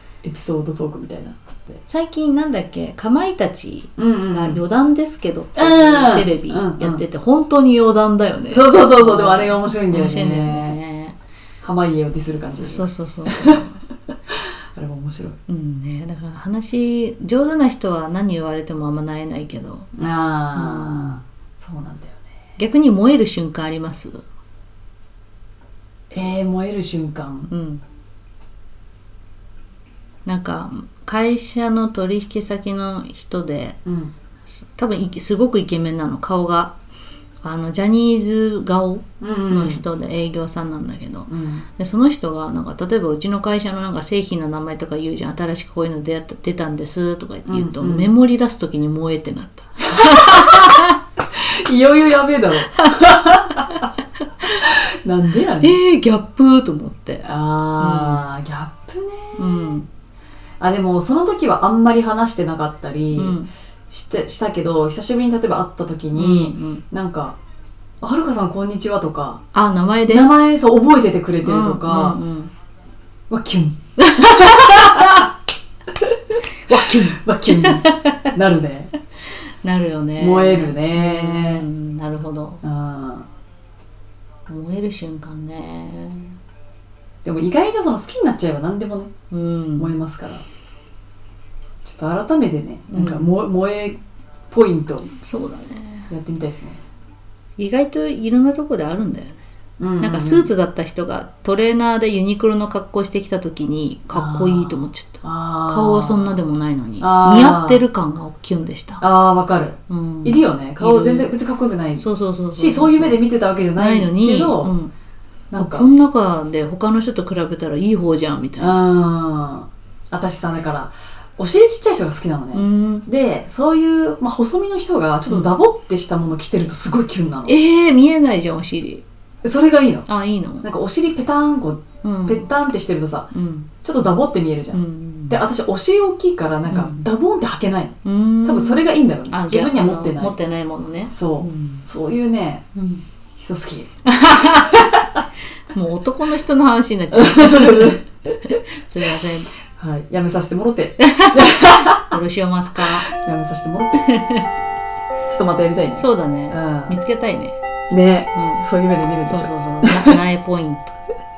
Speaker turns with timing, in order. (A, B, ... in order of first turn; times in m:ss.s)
0:00.2-0:01.8 A
0:01.9-0:11.2 B
0:04.0-0:04.6 A
0:05.6-0:07.0 A
0:08.5-0:10.8 A
0:11.6-0:13.6 A
0:12.6-0:13.8 B
0:14.7-0:15.4 A
0:15.5-0:19.9 B
0:20.0-0:22.2 A
0:20.5-0:21.2 B
0:22.6-0:24.2 B
0:26.1-0:27.5 A
0:27.5-0:27.8 B
0:30.2-0:33.8 B
0:33.8-0:34.1 A
0:34.6-0:36.7 B
0:37.4-0:51.0 B
0:39.2-0:39.8 A
0:41.3-0:41.6 A
0:47.5-0:48.1 A
0:50.0-0:50.7 A
0:51.3-0:53.6 A
0:52.8-0:53.1 B
0:54.6-0:55.8 A
0:55.6-0:57.2 B
0:57.2-0:59.4 A
0:57.8-0:58.3 B
0:59.4-0:59.9 B
1:00.6-1:03.4 A
1:03.1-1:03.5 B
1:03.9-1:07.4 A
1:06.2-1:06.8 B
1:08.0-1:09.4 A
1:09.5-1:10.3 B
1:10.1-1:12.2 A
1:11.4-1:12.5 B
1:13.3-1:13.8 A
1:14.0-1:15.2 B
1:14.4-1:15.2 A
1:16.0-1:16.4 A
1:16.7-1:18.3 B
1:17.1-1:18.9 A
1:19.6-1:22.6 B
1:20.2-1:21.7 A
1:22.6-1:23.2 A
1:24.5-1:26.3 B
1:27.2-1:29.1 A
1:29.3-1:29.9 B
1:29.8-1:30.4 A
1:31.8-1:34.0 A
1:32.9-1:33.3 B
1:34.5-1:35.1 A
1:35.2-1:36.1 B
1:36.1-1:36.8 A
1:37.6-1:39.4 B
1:39.8-1:40.5 A
1:40.0-1:49.0 B
1:44.1-1:46.3 A
1:47.0-1:47.8 A
1:49.0-1:54.7 A
1:49.9-1:51.3 B
1:52.0-1:53.2 B
1:53.7-1:54.9 B
1:55.5-1:55.9 A
1:55.6-1:58.8 B
1:58.6-2:07.6 A
2:02.5-2:03.0 B
2:07.5-2:09.0 B
2:09.4-2:10.1 A
2:10.1-2:10.7 B
2:10.6-2:20.4 A
2:12.0-2:12.5 B
2:13.3-2:13.7 B
2:14.7-2:15.4 B
2:16.7-2:17.1 B
2:18.0-2:21.8 B
2:21.1-2:22.7 A
2:22.7-2:23.0 B
2:23.4-2:23.9 A
2:24.0-2:24.9 B
2:25.7-2:29.5 B
2:27.1-2:28.3 A
2:29.7-2:32.1 A
2:31.0-2:33.1 B
2:33.0-2:34.0 A
2:34.0-2:34.5 B
2:35.3-2:37.0 A
2:36.0-2:37.6 B
2:37.9-2:40.1 A
2:38.3-2:38.7 B
2:39.2-2:41.0 B